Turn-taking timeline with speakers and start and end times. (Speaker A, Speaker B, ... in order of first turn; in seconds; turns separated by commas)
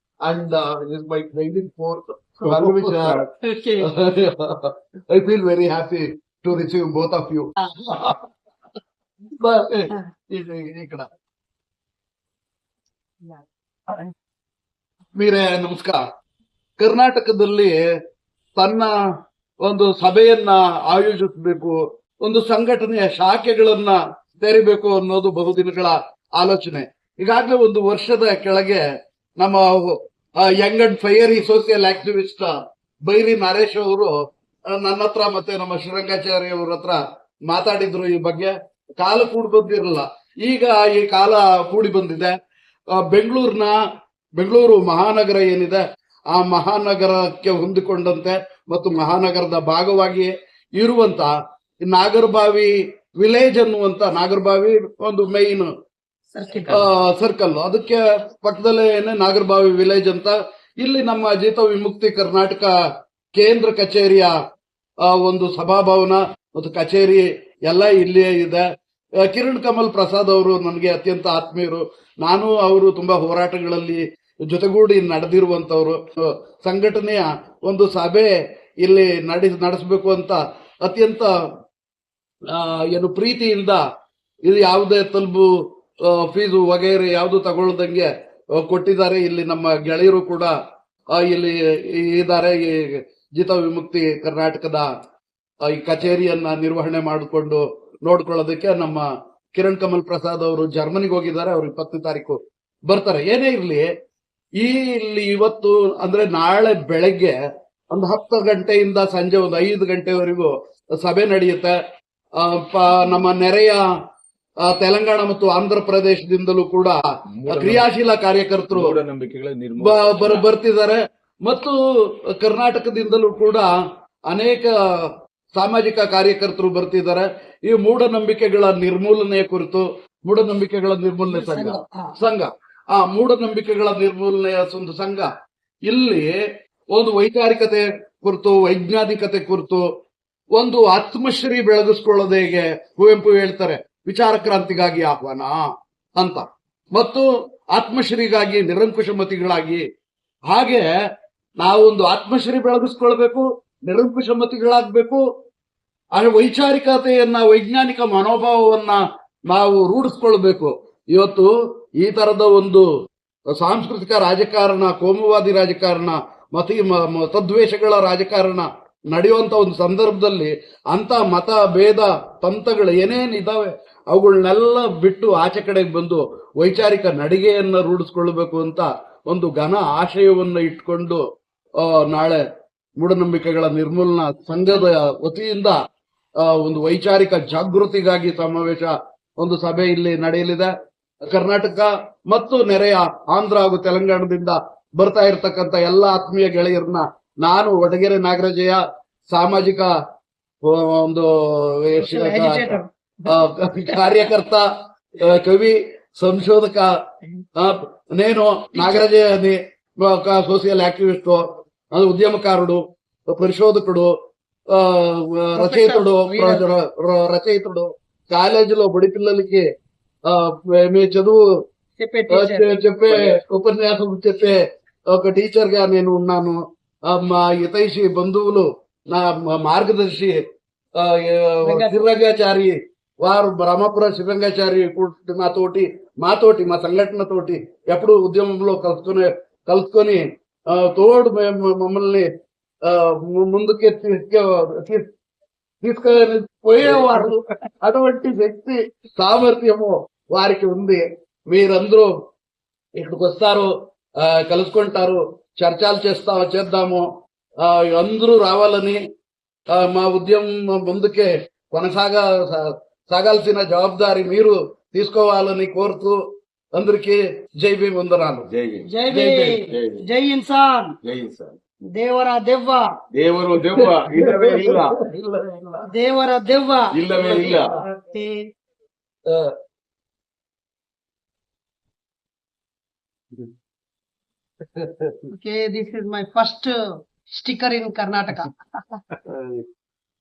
Speaker A: 0.2-3.2, Speaker B: 2.5-3.2, Speaker C: 3.4-3.9, Speaker A: 3.9-8.2, Speaker A: 9.4-11.1, Speaker A: 15.2-16.0, Speaker A: 16.8-17.8, Speaker A: 18.6-18.9, Speaker A: 19.6-28.8, Speaker A: 29.4-32.5, Speaker A: 33.1-34.1, Speaker A: 34.7-42.3, Speaker A: 42.9-43.8, Speaker A: 44.4-51.3, Speaker A: 51.9-55.7, Speaker C: 56.3-56.9, Speaker A: 56.7-62.7, Speaker A: 63.4-64.3, Speaker A: 65.0-68.6, Speaker A: 69.2-76.0, Speaker A: 76.6-81.3, Speaker A: 82.5-83.8, Speaker A: 84.5-85.5, Speaker A: 86.0-90.5, Speaker A: 91.1-94.9, Speaker A: 95.7-103.9, Speaker A: 104.6-107.4, Speaker A: 107.9-111.8, Speaker A: 112.4-113.8, Speaker A: 114.7-117.0, Speaker B: 117.4-117.8, Speaker A: 117.5-119.0, Speaker B: 118.7-120.5, Speaker A: 119.8-123.7, Speaker A: 124.3-135.3, Speaker C: 131.3-132.2, Speaker A: 135.9-136.3, Speaker A: 136.9-139.8, Speaker A: 140.6-145.7, Speaker A: 146.2-146.4, Speaker A: 146.9-149.8, Speaker A: 150.5-150.9, Speaker A: 151.6-155.2, Speaker A: 156.2-162.9, Speaker A: 163.6-181.2, Speaker A: 181.8-182.4, Speaker A: 183.0-185.8, Speaker A: 186.4-190.7, Speaker A: 191.3-199.9, Speaker A: 200.7-202.7, Speaker C: 202.0-203.3, Speaker A: 203.3-204.6, Speaker C: 203.9-204.2, Speaker A: 205.2-206.9, Speaker A: 207.6-214.1, Speaker C: 208.8-209.0, Speaker A: 214.7-219.6, Speaker C: 215.6-216.6, Speaker A: 220.3-221.4, Speaker C: 222.0-222.8, Speaker A: 222.3-224.6, Speaker A: 225.1-230.4, Speaker A: 231.0-242.3, Speaker C: 231.7-232.0, Speaker A: 242.9-245.1, Speaker A: 245.8-252.1, Speaker C: 247.0-247.3, Speaker A: 253.0-253.7, Speaker A: 254.2-257.1, Speaker A: 257.6-259.0, Speaker A: 259.8-266.2, Speaker A: 266.8-268.5, Speaker B: 268.5-268.9, Speaker C: 268.9-270.9, Speaker A: 269.1-269.6, Speaker B: 269.5-270.1, Speaker B: 271.0-271.6, Speaker C: 271.9-272.9, Speaker B: 273.1-274.9, Speaker A: 273.7-275.9, Speaker C: 275.9-276.9, Speaker B: 276.9-277.8, Speaker A: 277.1-277.8, Speaker C: 277.9-278.5, Speaker A: 279.3-279.5, Speaker A: 284.6-285.2, Speaker C: 285.3-286.7, Speaker C: 287.3-289.0, Speaker A: 289.2-289.6